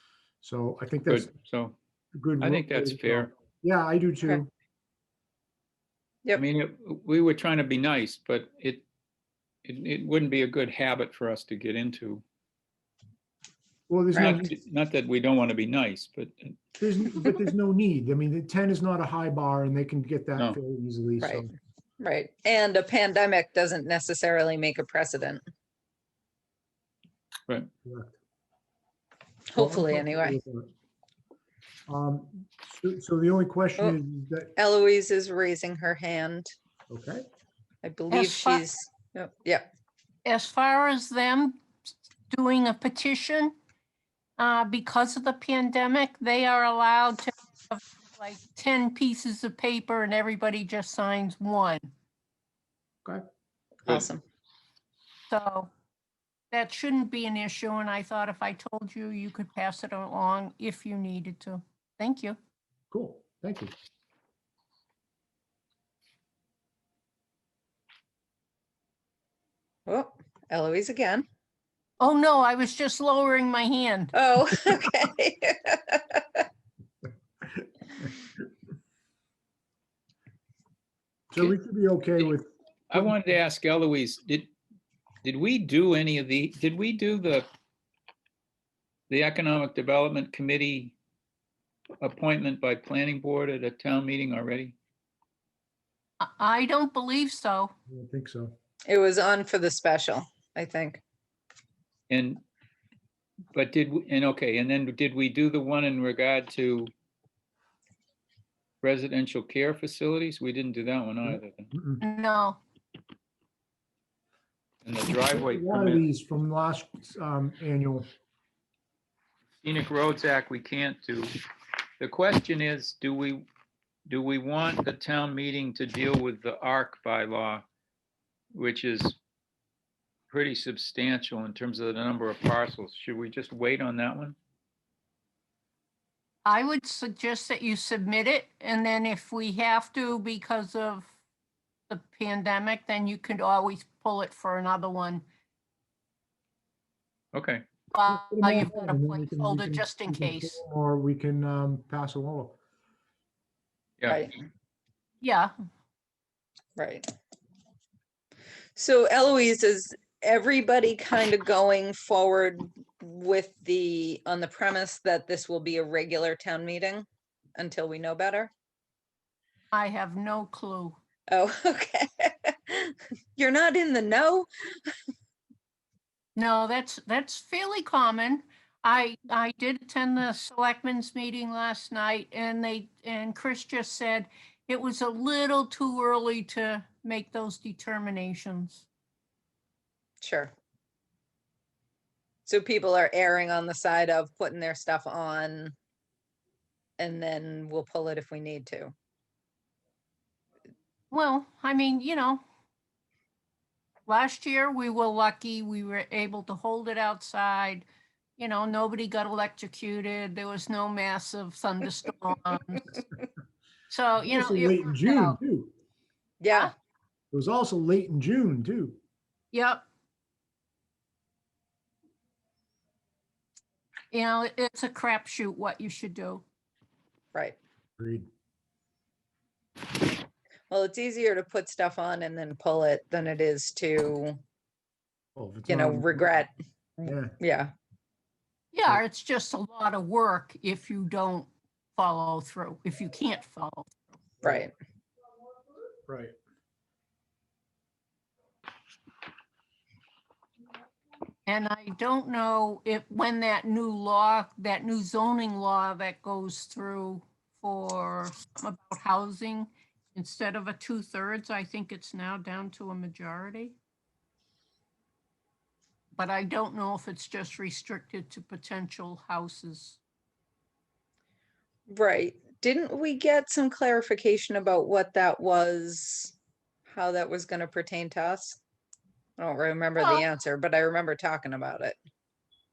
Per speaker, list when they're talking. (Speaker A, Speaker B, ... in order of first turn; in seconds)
Speaker A: 0.4-1.3, 2.1-4.5, 13.9-14.5, 16.8-21.5, 27.8-28.1, 29.5-30.7, 31.9-34.5, 36.9-37.2, 62.9-63.7, 81.3-83.1, 97.9-98.5, 111.7-112.0, 115.3-118.0, 148.1-152.6, 214.2-215.7, 217.3-219.0, 228.0-228.3, 235.3-236.3, 237.0-237.3, 244.4-244.7, 246.1-246.3
Speaker B: 1.1-1.7, 2.4-3.3, 6.3-8.8, 9.6-12.2, 14.2-16.6, 82.9-84.5, 85.2-87.5, 89.1-90.9, 92.0-94.7, 102.1-102.4, 103.5-106.9, 108.8-111.7, 114.8-116.0, 119.6-121.3, 122.0-123.5, 124.1-127.6, 128.5-129.2, 130.3-134.3, 147.3-147.6, 154.0-154.3
Speaker C: 14.1-14.4, 22.0-25.4, 29.5-30.4, 34.5-36.5, 37.8-39.7, 53.8-54.2, 69.9-71.2, 74.1-76.4, 98.9-101.0, 154.1-154.4, 156.8-157.1, 158.7-168.5, 171.3-174.5, 190.2-190.5, 192.4-195.7, 197.0-198.9, 216.4-216.7, 230.7-234.4, 235.7-237.7, 244.4-244.7, 271.9-276.3, 276.9-278.6, 279.4-282.0
Speaker D: 38.1-38.6, 40.2-41.6, 42.3-43.5, 44.4-51.8, 55.3-55.7, 56.5-62.4, 72.0-74.1, 96.2-97.7, 112.0-112.6, 136.4-141.1, 141.9-145.2, 147.9-150.6, 155.2-155.5, 169.7-171.0, 176.3-188.8, 201.1-202.4, 204.1-207.9, 208.4-212.9, 213.9-215.4, 219.5-219.8, 224.1-226.4, 238.7-243.9, 251.5-263.8, 266.1-270.0